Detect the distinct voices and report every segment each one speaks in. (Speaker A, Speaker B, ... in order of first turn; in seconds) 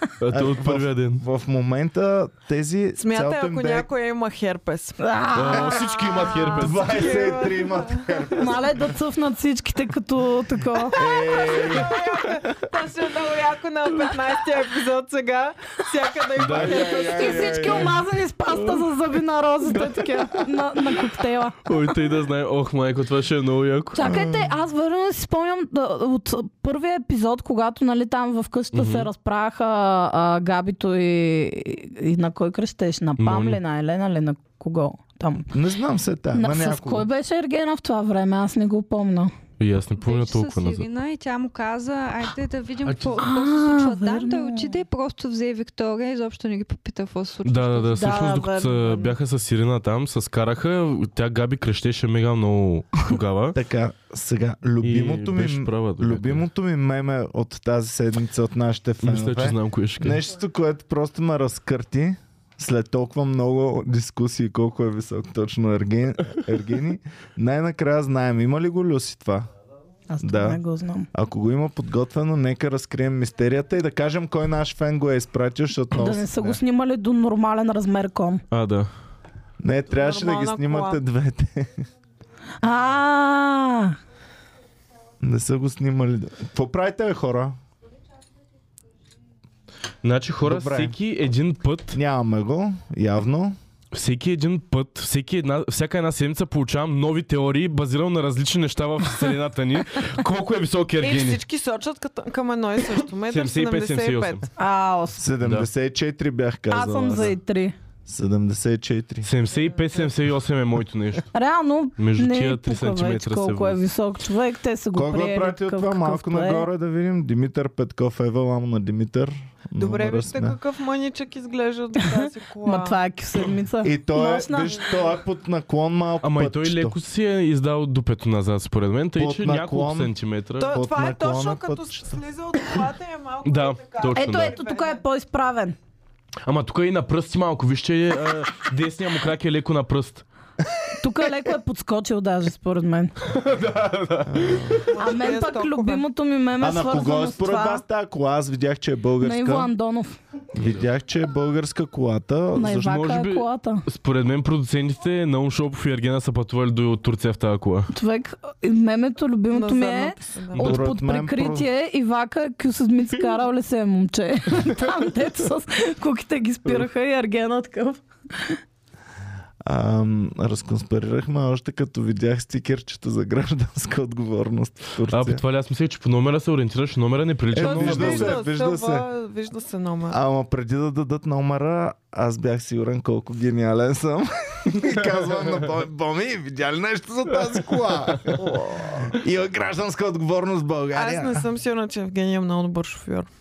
Speaker A: 0.2-1.2, 5.3-7.0, 16.4-16.9, 18.5-18.9, 19.6-21.0, 21.7-24.0, 28.7-29.1, 33.2-33.6, 39.6-40.9, 42.9-43.2, 47.4-53.6, 54.8-56.5, 59.0-60.2, 78.5-78.9, 90.0-92.0, 93.9-101.4, 103.0-104.5, 105.4-105.7, 109.2-111.3, 112.0-113.8, 126.2-130.8, 133.4-134.6, 136.4-140.2, 143.2-144.9, 152.7-157.9, 175.1-178.4, 184.8-185.5, 188.1-188.6
Speaker B: 0.3-3.9, 6.6-8.9, 10.9-11.9, 16.5-18.0, 24.0-24.5, 35.5-37.1, 53.5-69.5, 70.2-70.6, 71.1-76.6, 79.6-81.8, 85.2-87.6, 90.4-91.0, 91.9-93.6, 105.2-107.4, 108.0-109.3, 114.9-120.6, 123.8-127.0, 129.2-130.2, 130.7-132.2, 144.3-144.9, 146.6-149.7, 150.5-153.1, 160.6-161.7, 169.6-175.4, 177.5-179.1, 180.1-191.4
Speaker C: 3.0-5.0, 6.6-8.3, 11.0-17.9, 79.9-81.0, 101.0-104.5, 109.8-110.1, 119.8-123.0, 130.6-135.0, 144.9-146.1, 159.5-160.8, 177.6-180.2, 190.9-193.3
Speaker D: 5.0-6.7, 8.4-11.0, 16.8-21.9, 23.9-35.5, 36.3-39.3, 43.2-44.8, 48.0-49.1, 70.1-71.1, 75.9-78.4, 82.6-84.0, 104.6-105.2, 106.7-107.8, 111.3-116.7, 122.7-125.1, 134.1-135.8, 141.0-143.1, 145.0-147.8, 149.2-150.2, 152.6-153.8, 157.9-168.6
Speaker E: 40.0-48.1